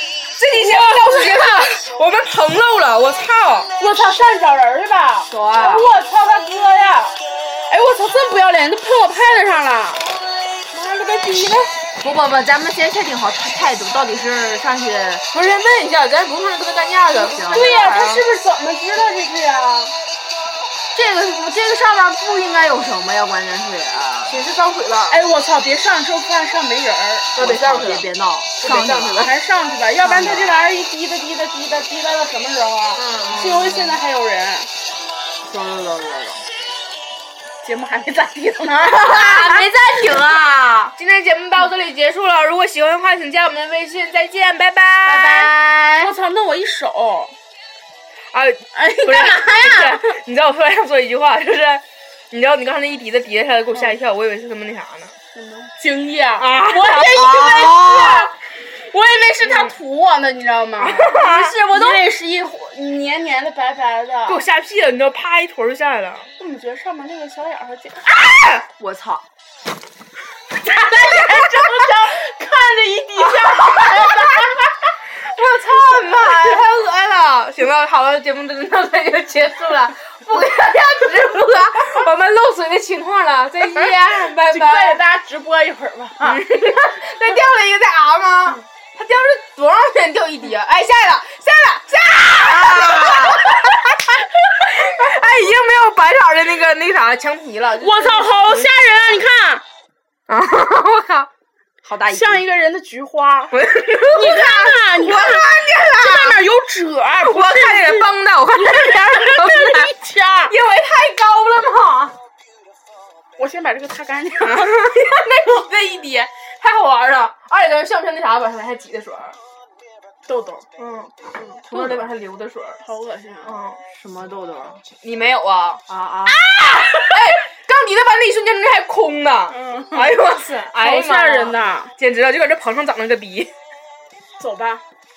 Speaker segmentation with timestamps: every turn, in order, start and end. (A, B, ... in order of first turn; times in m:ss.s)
0:00.4-0:03.7 A
0:03.8-0:07.2 B
0:05.3-0:05.9 C
0:07.7-0:10.1 B
0:10.7-0:11.8 A
0:12.0-0:15.2 C
0:15.3-0:17.8 A
0:17.1-0:18.2 C
0:17.4-0:20.0 B
0:20.9-0:24.4 C
0:24.3-0:25.2 A
0:25.1-0:27.3 B
0:27.4-0:29.3 A
0:27.4-0:29.3 C
0:29.2-0:34.7 B
0:30.0-0:30.6 C
0:33.0-0:33.4 A
0:33.2-0:34.0 C
0:35.5-0:36.5 C
0:37.6-0:39.2 B
0:38.9-0:41.0 C
0:39.0-0:39.6 A
0:41.0-0:45.4 A
0:45.1-0:47.4 B
0:45.2-0:46.1 C
0:48.3-0:55.1 A
0:48.7-0:50.1 B
0:55.4-1:01.1 B
0:56.4-0:57.2 A
0:57.2-0:58.3 C
0:59.4-0:59.8 A
1:00.8-1:01.7 A
1:01.0-1:02.0 C
1:01.6-1:04.4 B
1:04.3-1:06.3 A
1:06.4-1:08.1 B
1:08.0-1:08.7 A
1:08.7-1:09.2 C
1:10.6-1:14.6 B
1:10.6-1:11.4 A
1:13.2-1:14.6 A
1:15.1-1:25.0 A
1:20.7-1:21.8 C
1:23.8-1:26.5 B
1:26.2-1:39.2 A
1:32.7-1:33.4 C
1:37.8-1:39.6 B
1:40.3-1:41.3 A
1:41.8-1:42.4 C
1:42.0-1:50.6 B
1:43.5-1:46.4 A
1:47.2-1:49.9 A
1:50.5-1:52.2 A
1:53.4-1:54.7 B
1:54.4-1:59.4 A
2:00.3-2:00.7 B
2:00.8-2:01.1 A
2:01.7-2:02.8 A
2:02.8-2:03.6 B
2:03.4-2:03.8 A
2:03.9-2:04.8 C
2:05.0-2:05.8 A
2:05.9-2:06.4 C
2:06.6-2:13.5 A
2:09.5-2:11.9 B
2:14.4-2:14.8 B